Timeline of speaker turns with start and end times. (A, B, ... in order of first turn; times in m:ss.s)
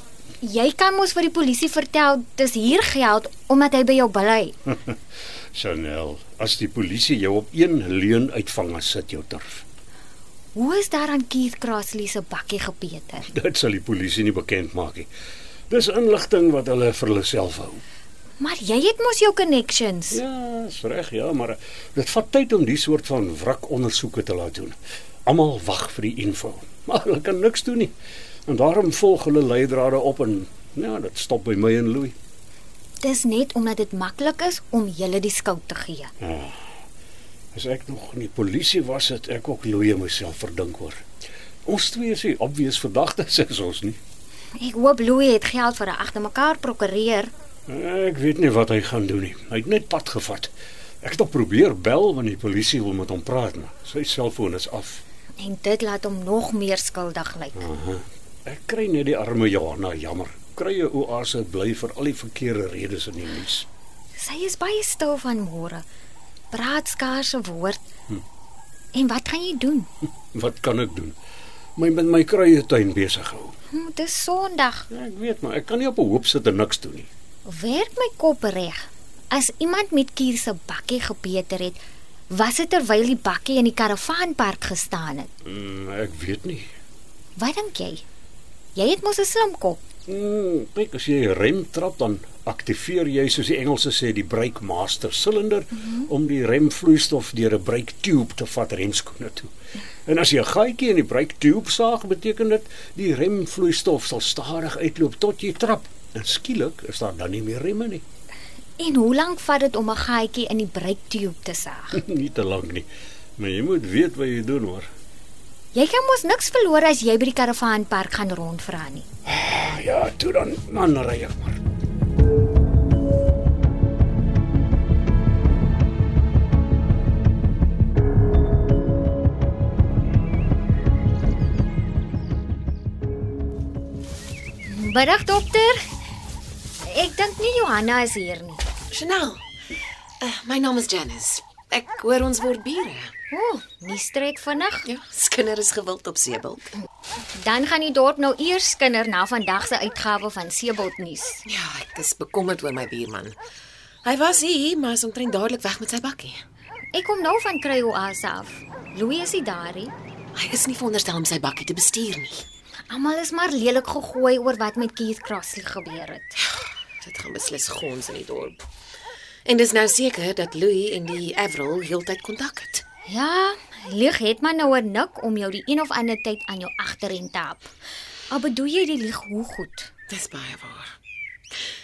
0:00.4-0:04.5 A
0:05.5-0:09.6 B
0:10.5-0:13.3 A
0:13.3-0:15.1 B
0:15.7-0:17.8 B
0:18.4-0:20.2 A
0:20.1-0:27.9 B
0:28.5-0:32.2 B
0:33.0-0:36.1 A
0:36.2-0:36.6 B
0:37.5-0:41.0 B
0:41.6-0:44.0 B
0:44.6-0:47.3 A
0:47.7-0:55.0 B
0:55.4-0:57.6 A
0:57.6-1:03.7 B
1:04.2-1:05.8 A
1:06.5-1:07.8 A
1:08.9-1:09.9 A
1:10.3-1:11.1 B
1:11.8-1:13.6 B
1:13.7-1:14.9 A
1:14.9-1:17.1 B
1:17.4-1:21.8 A
1:22.3-1:25.3 A
1:25.4-1:26.7 B
1:27.4-1:28.0 A
1:28.7-1:29.8 A
1:30.1-1:39.5 B
1:40.0-1:48.0 B
1:48.8-1:52.0 A
1:51.9-1:52.9 B
1:53.4-1:54.9 B
1:55.7-1:59.1 A
1:59.2-2:01.6 B
2:14.6-2:15.8 A
2:16.8-2:18.6 A
2:18.9-2:19.4 C
2:20.2-2:23.1 C
2:23.3-2:24.8 A
2:24.8-2:26.7 C
2:27.3-2:31.4 A
2:31.5-2:33.4 C
2:34.0-2:36.4 C
2:36.9-2:39.9 A
2:40.4-2:42.5 C
2:42.9-2:46.4 A
2:47.0-2:48.7 C
2:49.5-2:52.8 C
2:53.1-2:57.7 A
2:58.3-2:59.9 A
3:00.1-3:00.9 C